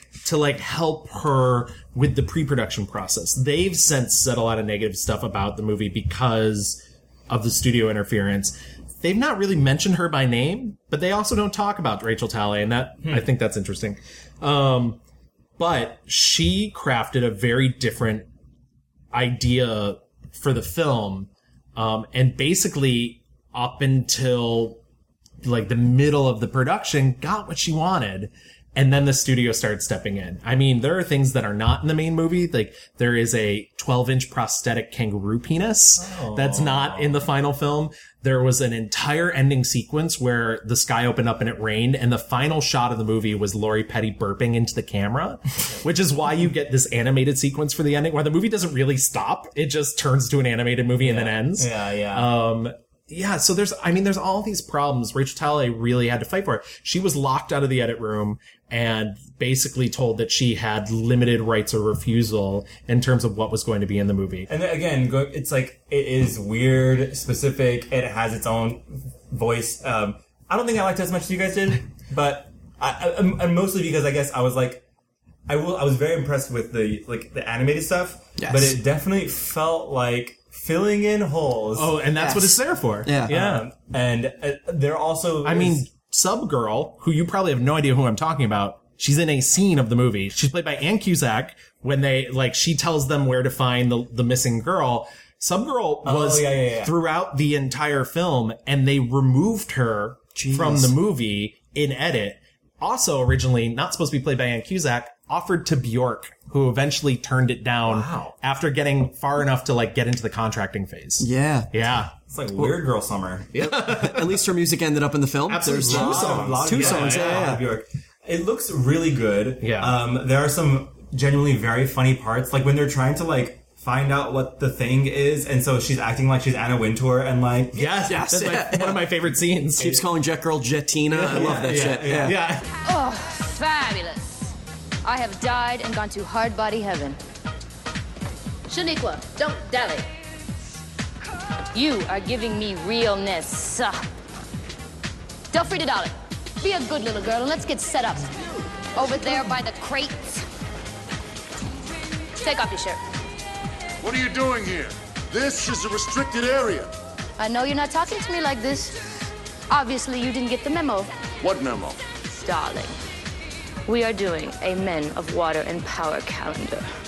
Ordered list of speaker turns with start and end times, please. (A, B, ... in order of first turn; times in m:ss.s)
0:00.2-0:15.0 A
0:15.6-0:18.2 A
0:19.1-0:24.8 A
0:25.4-1:04.5 A
0:36.0-0:37.2 B
0:51.0-0:52.3 B
1:04.5-1:14.8 B
1:15.5-1:21.9 B
1:18.4-1:18.8 C
1:21.8-1:23.6 A
1:22.2-1:23.3 C
1:23.3-1:25.8 B
1:25.4-1:52.1 A
1:36.0-1:36.9 B
1:40.4-1:40.9 C
1:47.8-1:48.3 B
1:51.2-1:51.7 C
1:52.3-1:53.5 B
1:53.5-1:57.6 C
1:53.6-1:54.4 A
1:55.5-1:57.5 A
1:55.8-2:07.9 B
1:59.6-1:59.9 A
2:07.7-2:10.0 A
2:08.0-2:09.0 C
2:09.8-2:12.4 C
2:11.1-2:12.6 A
2:11.3-2:12.3 B
2:12.8-2:14.5 D
2:15.0-2:17.2 D
2:18.7-2:20.1 D
2:21.7-2:24.0 D
2:25.5-2:28.4 D
2:28.9-2:30.4 D
2:32.4-2:33.0 D
2:34.0-2:36.9 E
2:37.4-2:39.0 D
2:39.7-2:41.1 D
2:41.4-2:42.0 E
2:42.3-2:43.0 D
2:43.8-2:46.9 D